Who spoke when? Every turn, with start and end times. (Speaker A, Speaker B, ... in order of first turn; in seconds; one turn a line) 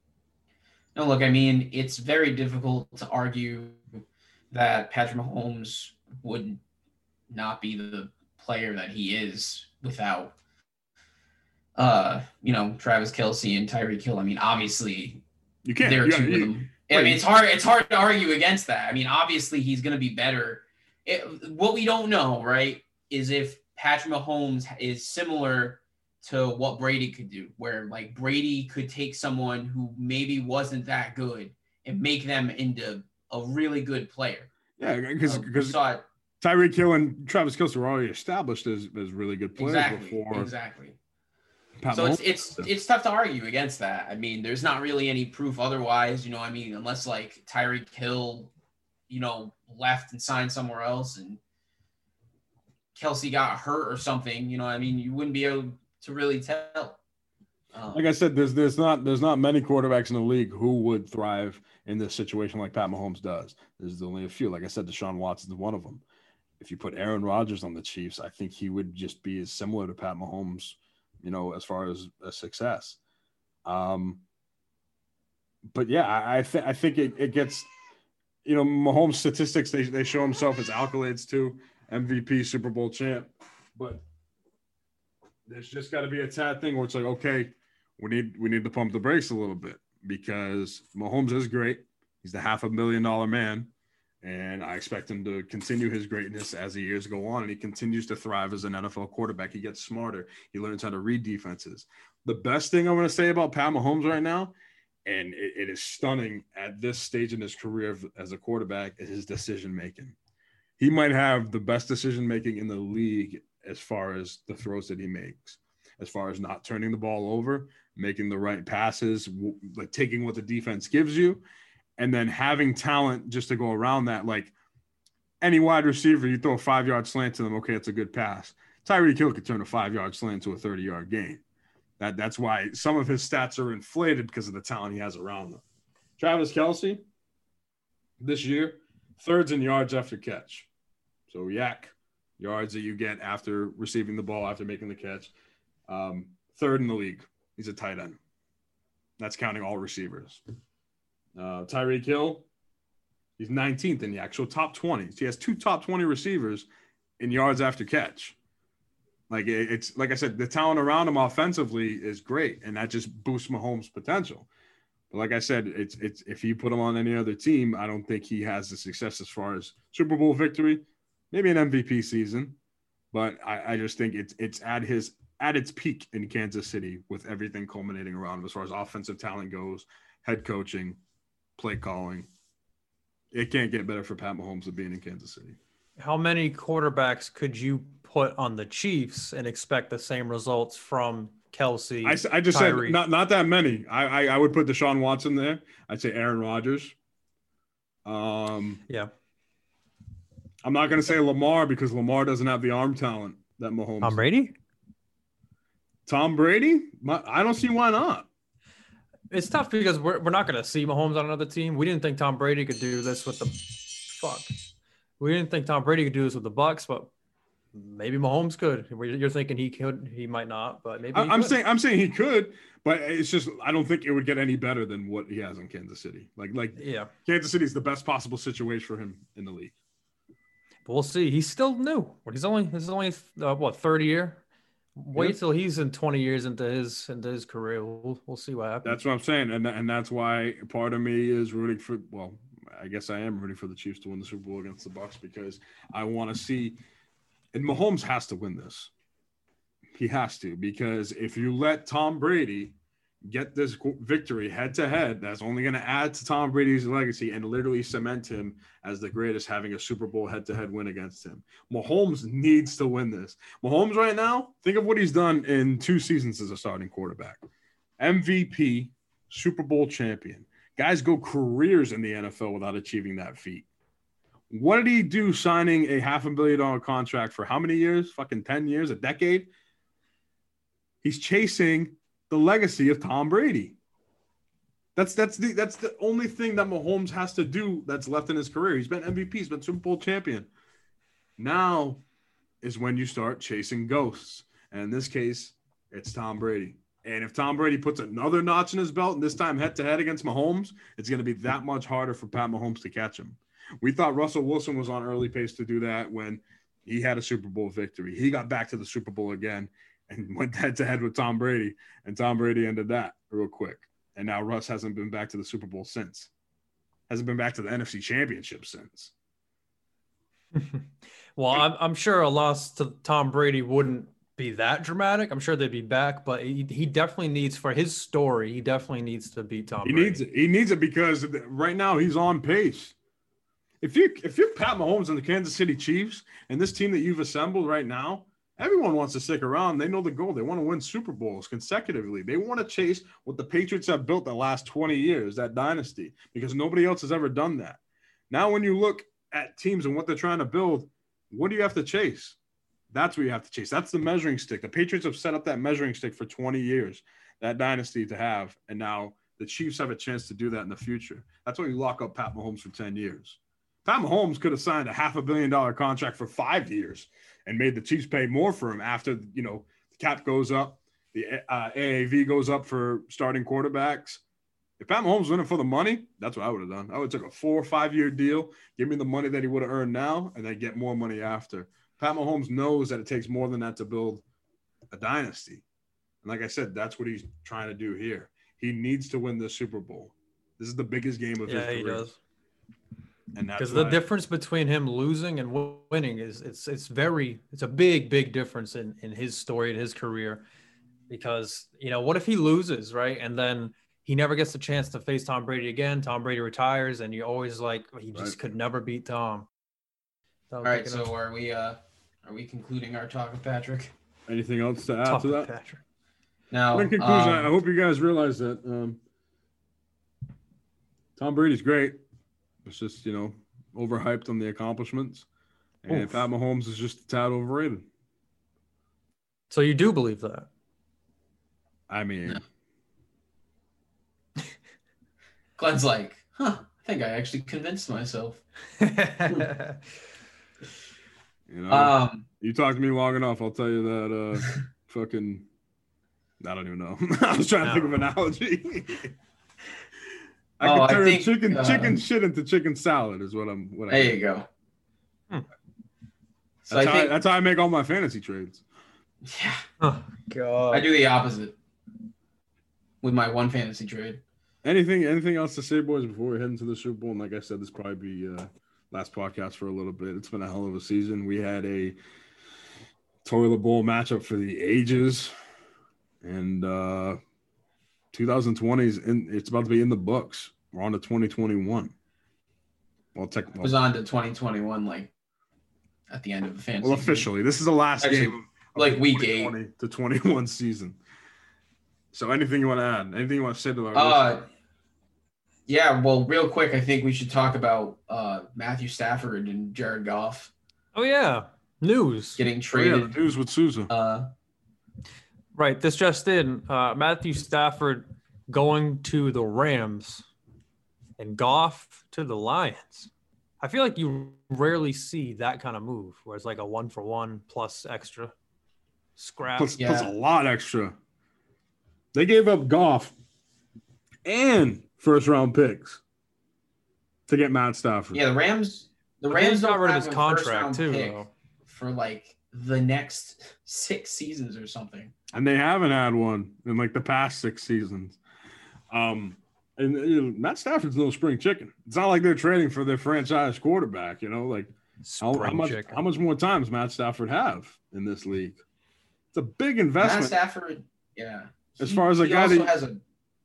Speaker A: 0.9-3.8
Speaker A: 4.5-6.6
Speaker A: 7.3-10.3
Speaker A: 11.8-15.2
Speaker B: 15.6-17.2
Speaker A: 15.8-34.5
Speaker B: 34.8-35.8
Speaker A: 35.2-36.0
Speaker B: 36.4-40.5
Speaker A: 39.6-41.0
Speaker B: 41.8-42.7
Speaker A: 41.9-48.5
Speaker A: 49.1-51.4
Speaker A: 52.9-57.0
Speaker A: 57.7-58.0
Speaker B: 57.9-66.0
Speaker B: 66.6-73.0
Speaker B: 73.6-74.2
Speaker B: 75.7-77.7
Speaker B: 78.4-84.0
Speaker B: 85.5-104.5
Speaker B: 105.0-110.2
Speaker B: 110.8-121.4
Speaker B: 122.0-124.5
Speaker B: 125.4-131.4
Speaker B: 132.0-135.6
Speaker B: 136.2-137.0
Speaker B: 138.2-140.7
Speaker B: 141.3-145.3
Speaker B: 145.9-148.2
Speaker B: 149.2-150.4
Speaker B: 151.3-152.4
Speaker B: 153.4-156.7
Speaker B: 157.2-158.3
Speaker B: 159.3-164.5
Speaker B: 165.1-172.6
Speaker B: 173.1-181.0
Speaker B: 181.6-182.3
Speaker B: 183.3-185.6
Speaker C: 186.0-193.0
Speaker B: 192.0-196.9
Speaker B: 198.0-198.8
Speaker B: 200.6-204.2
Speaker C: 204.0-204.5
Speaker B: 206.1-208.3
Speaker C: 209.3-214.5
Speaker C: 215.2-217.1
Speaker C: 217.7-221.6
Speaker B: 221.1-229.7
Speaker C: 226.8-227.1
Speaker C: 230.9-234.4
Speaker C: 234.9-238.9
Speaker B: 238.8-246.8
Speaker B: 247.5-248.9
Speaker B: 249.9-267.4
Speaker B: 268.0-273.6
Speaker B: 274.5-279.5
Speaker B: 281.0-283.8
Speaker B: 284.9-290.5
Speaker B: 291.4-292.0
Speaker B: 292.6-316.3
Speaker B: 317.1-319.1
Speaker C: 320.5-330.2
Speaker B: 329.8-332.9
Speaker B: 333.8-352.4
Speaker B: 352.9-374.2
Speaker B: 374.8-384.2
Speaker B: 384.9-385.6
Speaker B: 386.2-392.1
Speaker C: 391.4-392.2
Speaker B: 393.3-394.0
Speaker C: 393.6-400.4
Speaker C: 401.1-409.5
Speaker C: 410.5-411.1
Speaker A: 410.6-413.9
Speaker B: 414.3-415.5
Speaker C: 415.0-415.8
Speaker A: 416.5-417.5
Speaker B: 416.7-419.0
Speaker B: 421.2-422.0
Speaker B: 422.6-425.2
Speaker B: 425.8-427.9
Speaker C: 425.9-426.3
Speaker C: 429.5-430.5
Speaker B: 431.9-432.4
Speaker A: 435.6-438.4
Speaker C: 438.8-439.8
Speaker B: 441.5-445.5
Speaker A: 441.7-442.2
Speaker B: 446.4-449.1
Speaker C: 447.6-447.9
Speaker B: 450.6-454.2
Speaker A: 450.6-451.9
Speaker A: 453.9-454.5
Speaker A: 456.6-457.1
Speaker B: 456.7-458.6
Speaker A: 459.2-459.6
Speaker C: 459.8-460.9
Speaker A: 460.7-461.6
Speaker A: 463.0-464.2
Speaker B: 464.6-472.0
Speaker B: 473.2-475.3
Speaker B: 476.2-477.2
Speaker B: 478.1-481.9
Speaker B: 483.1-483.8
Speaker A: 483.6-485.1
Speaker A: 486.1-487.3
Speaker B: 486.8-491.0
Speaker A: 488.0-489.5
Speaker B: 492.1-494.4
Speaker A: 493.9-494.4
Speaker A: 495.7-500.5
Speaker C: 500.9-502.4
Speaker A: 502.4-503.1
Speaker B: 502.7-503.9
Speaker A: 503.9-504.3
Speaker C: 505.5-510.3
Speaker C: 511.2-518.3
Speaker C: 519.2-519.8
Speaker B: 519.6-521.0
Speaker A: 519.8-520.1
Speaker B: 522.1-523.1
Speaker B: 524.2-526.0
Speaker B: 527.3-528.2
Speaker A: 528.1-535.1
Speaker C: 529.3-531.3
Speaker B: 535.3-538.2
Speaker B: 538.9-548.6
Speaker C: 545.0-546.0
Speaker B: 549.3-550.3
Speaker A: 550.0-553.0
Speaker B: 551.8-552.7